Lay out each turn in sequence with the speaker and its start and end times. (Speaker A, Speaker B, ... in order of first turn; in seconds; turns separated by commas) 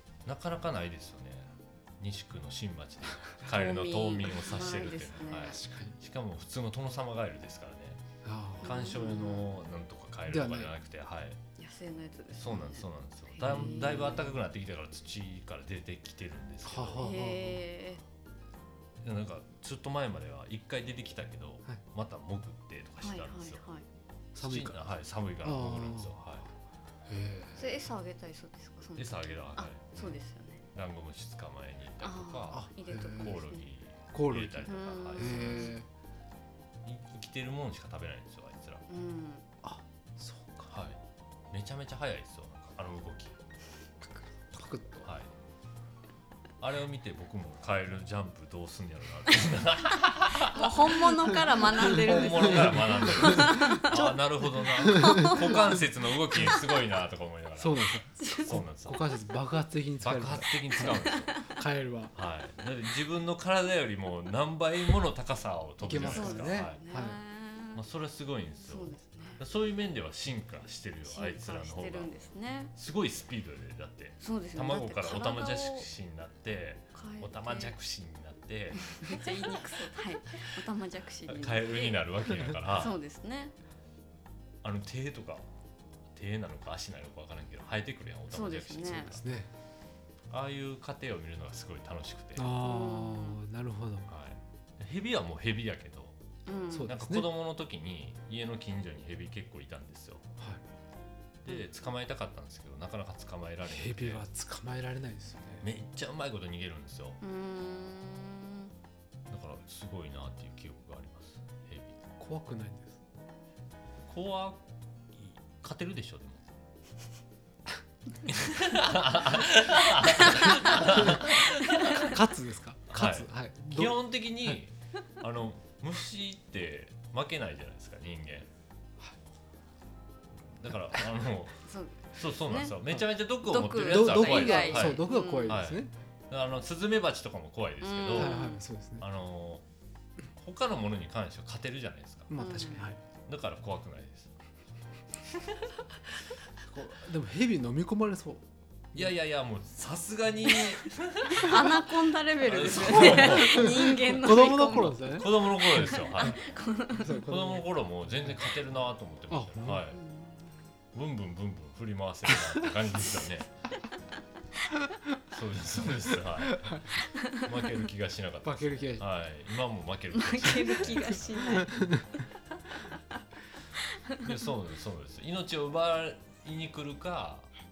Speaker A: 0.3-8.0, Speaker B: 3.5-5.6, Speaker C: 5.5-6.0, Speaker C: 8.2-8.8, Speaker A: 8.6-11.4, Speaker B: 8.6-9.5, Speaker C: 10.3-10.7, Speaker B: 11.6-14.4, Speaker A: 12.4-17.1, Speaker C: 13.4-13.8, Speaker C: 16.6-17.6, Speaker B: 17.0-18.0, Speaker A: 19.0-23.6, Speaker B: 23.0-23.9, Speaker C: 24.4-24.8, Speaker A: 24.4-26.5, Speaker C: 25.4-26.2, Speaker C: 27.1-27.6, Speaker B: 27.6-30.6, Speaker A: 29.0-30.2, Speaker A: 30.7-35.8, Speaker B: 32.0-33.7, Speaker C: 32.5-33.4, Speaker C: 34.1-35.9, Speaker B: 34.7-35.8, Speaker A: 36.8-38.9, Speaker B: 38.9-39.5, Speaker C: 39.6-40.7, Speaker A: 40.7-41.0, Speaker A: 41.5-43.4, Speaker C: 44.5-45.1, Speaker A: 45.0-45.3, Speaker A: 46.6-51.2, Speaker B: 50.4-54.0, Speaker A: 51.8-59.1, Speaker C: 51.9-56.6, Speaker B: 55.0-55.6, Speaker C: 57.6-62.1, Speaker B: 58.2-58.6, Speaker A: 60.0-61.5, Speaker B: 60.8-61.5, Speaker A: 62.1-66.8, Speaker C: 65.8-67.2, Speaker B: 66.0-67.8, Speaker A: 67.7-79.3, Speaker B: 68.6-69.4, Speaker B: 71.1-72.7, Speaker B: 74.2-75.9, Speaker B: 76.9-77.8, Speaker B: 78.9-83.5, Speaker A: 81.3-83.0, Speaker A: 84.6-85.5, Speaker A: 86.1-89.2, Speaker B: 88.3-89.2, Speaker C: 89.1-89.5, Speaker A: 90.3-92.6, Speaker C: 92.4-94.1, Speaker B: 92.6-93.4, Speaker A: 94.1-96.2, Speaker B: 96.5-96.9, Speaker C: 96.7-97.3, Speaker A: 96.9-100.3, Speaker A: 101.4-104.2, Speaker C: 103.7-105.7, Speaker A: 105.6-107.2, Speaker B: 107.2-108.7, Speaker A: 109.3-112.0, Speaker C: 112.2-113.0, Speaker A: 114.1-114.6, Speaker A: 115.1-116.5, Speaker A: 118.3-122.2, Speaker B: 120.0-120.8, Speaker C: 120.9-121.2, Speaker B: 121.7-122.2, Speaker C: 122.0-124.6, Speaker A: 122.9-128.5, Speaker A: 130.4-138.4, Speaker B: 131.6-132.8, Speaker B: 133.4-135.6, Speaker C: 133.8-135.9, Speaker B: 137.8-138.6, Speaker C: 138.1-139.1, Speaker A: 139.0-139.6, Speaker A: 140.4-142.3, Speaker C: 142.3-143.0, Speaker B: 142.4-142.9, Speaker A: 143.3-144.3, Speaker A: 145.4-145.7, Speaker C: 146.7-149.1, Speaker A: 148.9-153.9, Speaker B: 150.8-157.2, Speaker C: 152.7-156.0, Speaker A: 155.2-156.5, Speaker C: 156.9-158.4, Speaker A: 157.1-160.0, Speaker C: 159.3-159.9, Speaker B: 159.9-160.7, Speaker A: 160.9-163.5, Speaker A: 165.3-171.7, Speaker C: 166.4-166.8, Speaker B: 167.2-167.4, Speaker C: 168.4-169.1, Speaker B: 170.1-172.2, Speaker C: 171.6-172.1, Speaker B: 173.8-174.3, Speaker A: 174.2-177.5